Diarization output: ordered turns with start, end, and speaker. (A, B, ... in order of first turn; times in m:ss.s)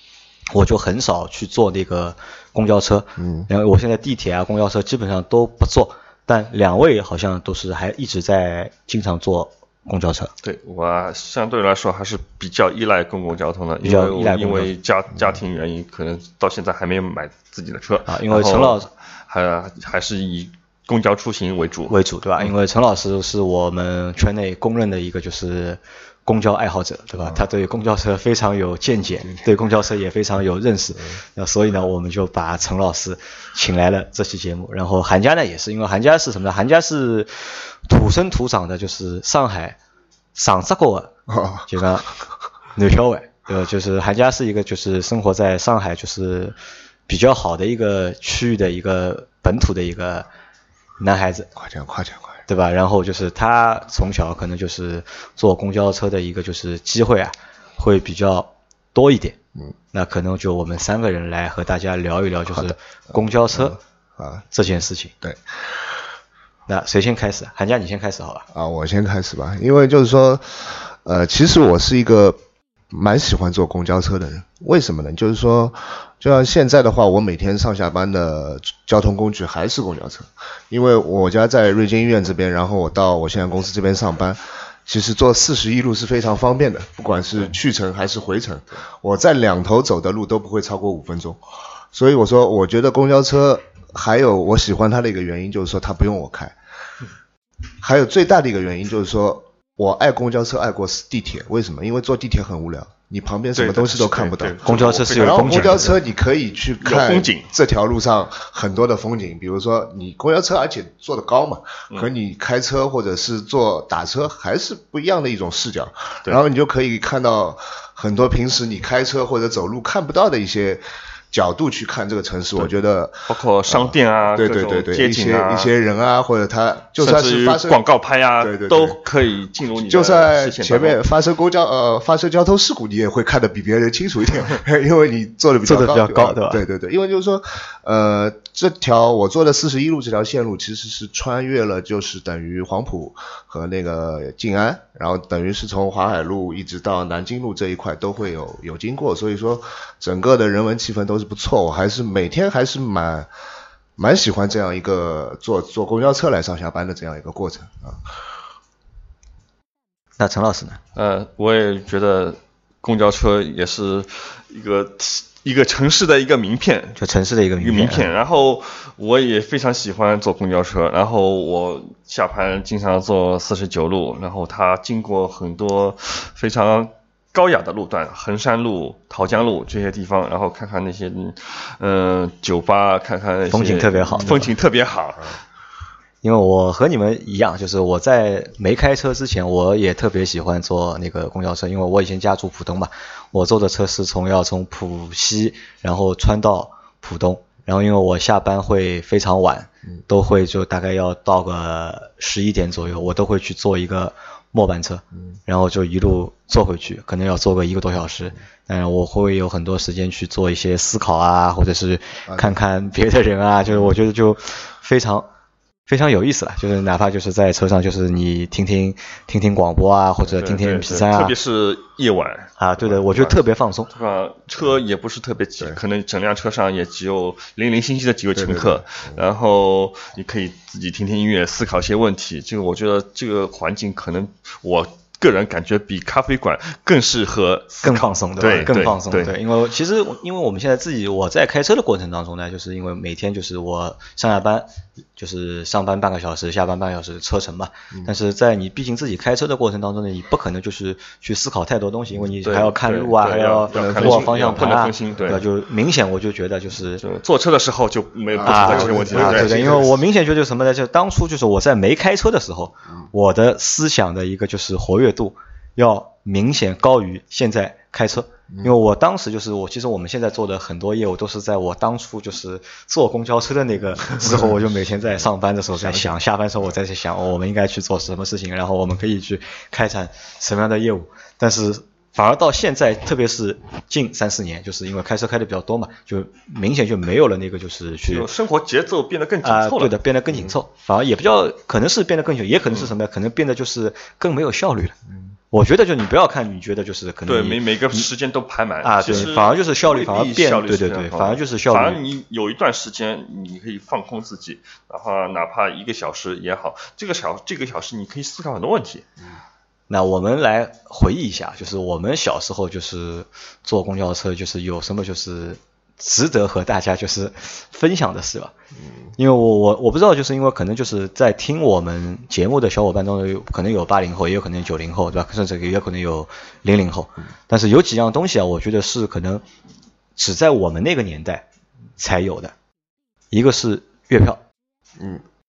0:00.5-0:10.3 A
0:03.2-0:03.5 B
0:10.4-0:21.9 C
0:13.8-0:14.7 A
0:18.1-0:18.9 A
0:21.9-0:39.8 A
0:40.3-0:41.1 A
0:41.3-0:41.7 B
0:41.6-0:42.1 A
0:42.7-0:46.6 A
0:47.1-0:50.3 A
0:51.0-0:51.5 A
0:51.5-0:52.4 B
0:52.5-0:59.4 A
0:59.9-1:03.8 A
1:03.5-1:04.4 B
1:04.5-1:05.1 A
1:05.2-1:05.9 B
1:06.7-1:08.4 A
1:08.5-1:12.4 B
1:12.9-1:31.4 B
1:31.9-1:36.5 B
1:37.8-2:07.8 B
1:43.5-1:46.0 C
1:44.6-1:46.0 A
1:46.8-1:47.5 C
2:03.3-2:05.7 C
2:07.0-2:11.0 C
2:08.4-2:09.0 B
2:09.8-2:33.3 B
2:15.6-2:16.6 A
2:34.0-2:38.1 B
2:40.2-2:40.8 A
2:40.9-2:47.0 C
2:47.0-2:48.1 A
2:47.6-3:05.4 C
3:03.5-3:04.5 A
3:06.2-3:35.3 A
3:32.3-3:32.6 B
3:35.9-3:41.3 A
3:40.3-3:59.4 C
3:42.6-3:43.9 A
3:48.4-3:49.2 B
3:57.8-4:17.0 A
3:58.4-3:58.8 B
4:12.4-4:15.4 C
4:13.7-4:14.7 B
4:17.0-4:19.8 C
4:18.4-4:20.0 B
4:18.4-4:48.3 A
4:34.2-4:34.5 B
4:35.8-4:36.2 B
4:48.1-4:50.0 C
4:49.4-4:54.9 A
4:55.5-4:58.1 A
4:57.2-5:09.0 C
4:58.8-5:02.0 A
5:09.9-5:18.5 A
5:19.2-5:29.4 A
5:30.2-5:31.4 A
5:32.0-5:32.5 A
5:33.3-5:34.4 A
5:35.0-5:35.2 B